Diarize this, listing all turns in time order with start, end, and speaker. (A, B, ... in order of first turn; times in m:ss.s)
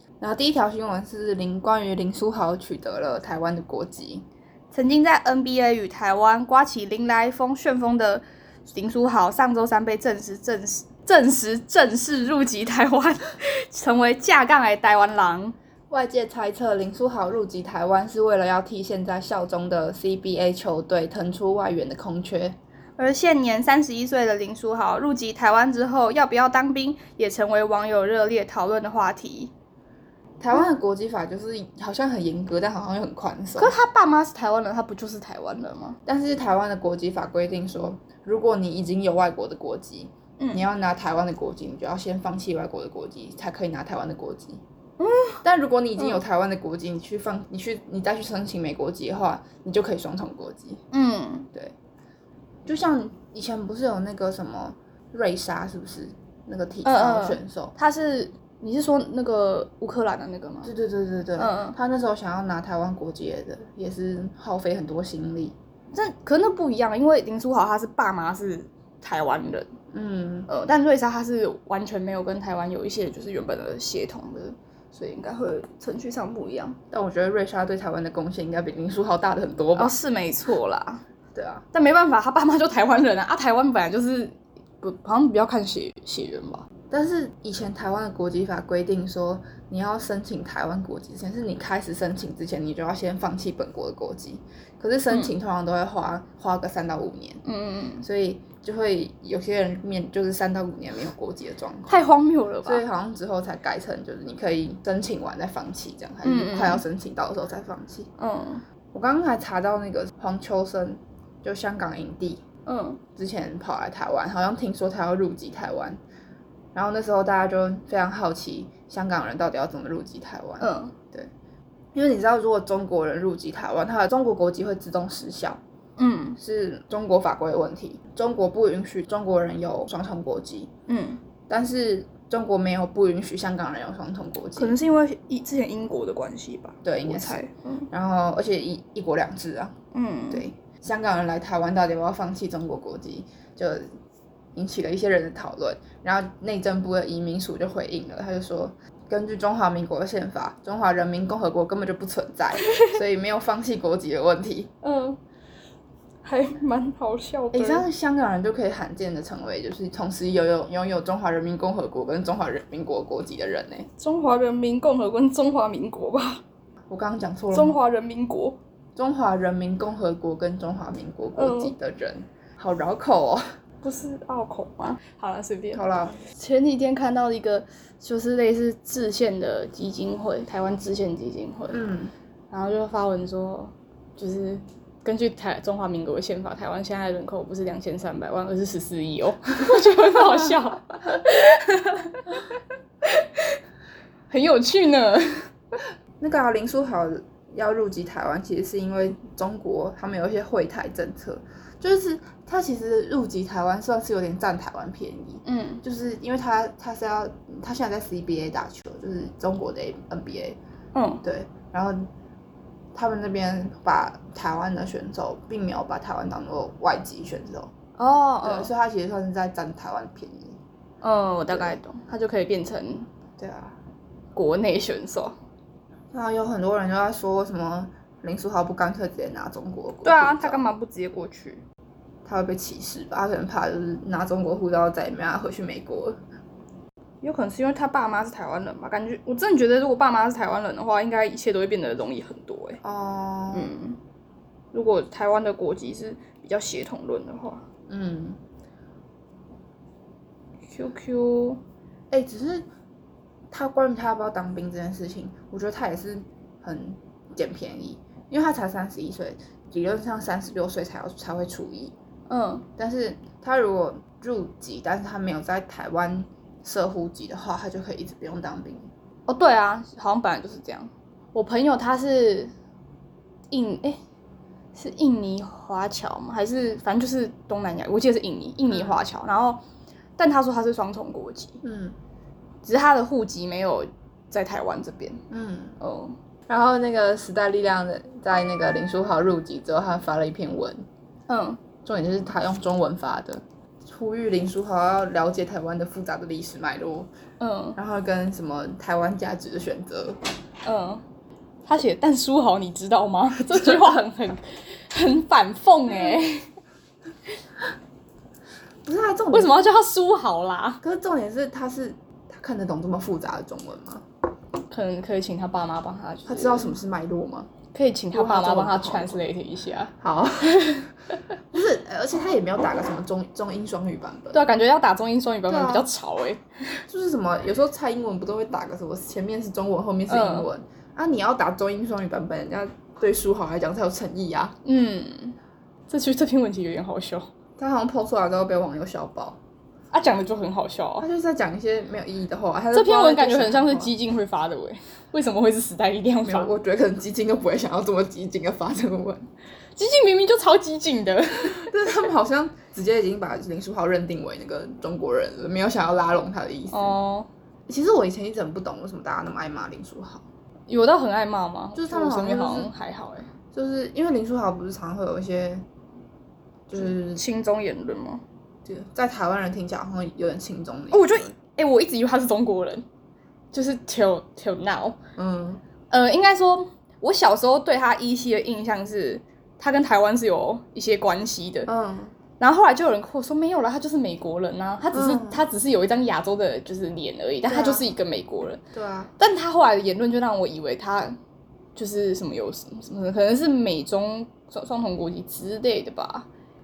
0:00.2-0:04.2 A
0:04.7-0:15.5 B
0:15.9-0:22.6 A
0:23.0-0:29.5 B
0:30.4-0:33.7 A
0:33.6-0:36.0 B
0:36.0-0:44.6 A
0:40.4-0:40.6 B
0:45.0-0:45.4 B
0:45.4-0:50.8 A
0:50.9-0:51.5 B
0:52.6-0:57.7 A
0:56.8-1:00.7 B
1:00.6-1:05.5 A
1:01.4-1:01.8 B
1:05.9-1:09.7 B
1:09.9-1:10.5 A
1:10.5-1:16.8 B
1:16.9-1:20.0 A
1:19.8-1:21.0 B
1:21.3-1:21.6 A
1:21.7-1:26.6 B
1:26.9-1:37.4 A
1:37.4-1:38.0 B
1:38.0-1:42.1 A
1:41.9-1:42.8 B
1:42.6-1:48.1 A
1:46.2-1:46.8 B
1:48.2-1:48.6 B
1:48.9-1:52.4 A
1:52.6-1:53.0 B
1:53.2-1:56.0 A
1:56.7-2:01.3 A
2:00.6-2:00.9 B
2:01.9-2:05.6 A
2:06.0-2:06.4 B
2:06.4-2:10.7 A
2:10.9-2:11.2 B
2:11.5-2:14.8 A
2:14.6-2:17.9 B
2:16.8-2:19.8 A
2:19.9-2:20.5 B
2:20.3-2:23.9 A
2:24.5-2:34.7 A
2:34.8-2:35.2 B
2:36.2-2:37.8 B
2:37.5-2:43.9 A
2:44.0-2:46.4 B
2:46.9-2:47.8 A
2:47.5-2:48.6 B
2:49.0-2:53.4 A
2:51.4-2:51.7 B
2:53.8-2:55.8 B
2:55.7-2:56.2 A
2:56.4-3:01.8 B
3:01.7-3:02.1 A
3:02.5-3:13.6 B
3:14.3-3:15.5 B
3:16.2-3:30.6 A
3:25.4-3:25.8 B
3:30.9-3:31.2 B
3:31.2-3:32.1 A
3:32.9-3:37.7 A
3:38.0-3:38.7 B
3:38.4-3:40.6 A
3:41.0-3:43.1 B
3:41.5-3:41.8 A
3:43.4-3:43.8 A
3:44.3-3:45.4 B
3:46.1-3:50.6 A
3:50.0-3:51.6 B
3:52.2-3:56.2 A
3:57.2-4:02.8 B
4:02.8-4:03.7 A
4:03.5-4:04.0 B
4:04.7-4:07.6 B
4:07.9-4:08.4 A
4:10.7-4:11.6 B
4:12.1-4:12.6 A
4:13.5-4:21.9 A
4:22.3-4:22.6 B
4:22.8-4:28.9 A
4:29.3-4:32.5 B
4:33.5-4:34.0 B
4:34.7-4:39.6 B
4:40.2-4:41.6 B
4:41.6-4:41.9 A
4:42.6-4:45.2 B
4:45.3-4:45.8 A
4:45.8-4:46.2 B
4:46.5-4:50.8 A
4:51.3-4:51.6 B
4:51.8-4:57.1 A
4:57.4-4:57.8 B
4:57.8-5:00.2 A
5:00.6-5:01.0 B
5:01.6-5:06.5 B
5:08.8-5:09.5 A
5:09.3-5:10.8 B
5:10.8-5:14.0 A
5:14.7-5:16.7 B
5:16.3-5:17.5 A
5:17.7-5:21.2 B
5:18.1-5:19.2 A
5:20.0-5:20.9 A
5:21.5-5:24.4 A
5:24.3-5:26.5 B
5:25.5-5:25.8 A
5:26.9-5:34.6 A
5:30.1-5:30.5 B
5:34.6-5:35.4 B
5:35.9-5:37.3 B
5:37.6-5:39.4 A
5:39.9-5:41.0 B
5:41.0-5:43.9 A
5:42.7-5:46.5 B
5:46.2-5:49.3 A
5:49.8-5:51.7 B
5:51.4-5:57.0 A
5:56.7-5:57.3 B
5:57.7-6:00.2 A
6:00.7-6:03.3 B
6:01.7-6:02.7 A
6:03.5-6:05.6 A
6:06.7-6:07.2 A
6:06.8-6:08.2 B
6:08.6-6:11.3 A
6:10.9-6:12.8 B
6:13.5-6:15.0 B
6:15.2-6:15.6 A
6:15.9-6:21.7 B
6:21.7-6:22.1 A
6:22.4-6:28.6 B
6:24.9-6:25.4 A
6:27.5-6:27.8 A
6:28.7-6:29.1 A
6:29.2-6:31.2 B
6:31.7-6:36.3 B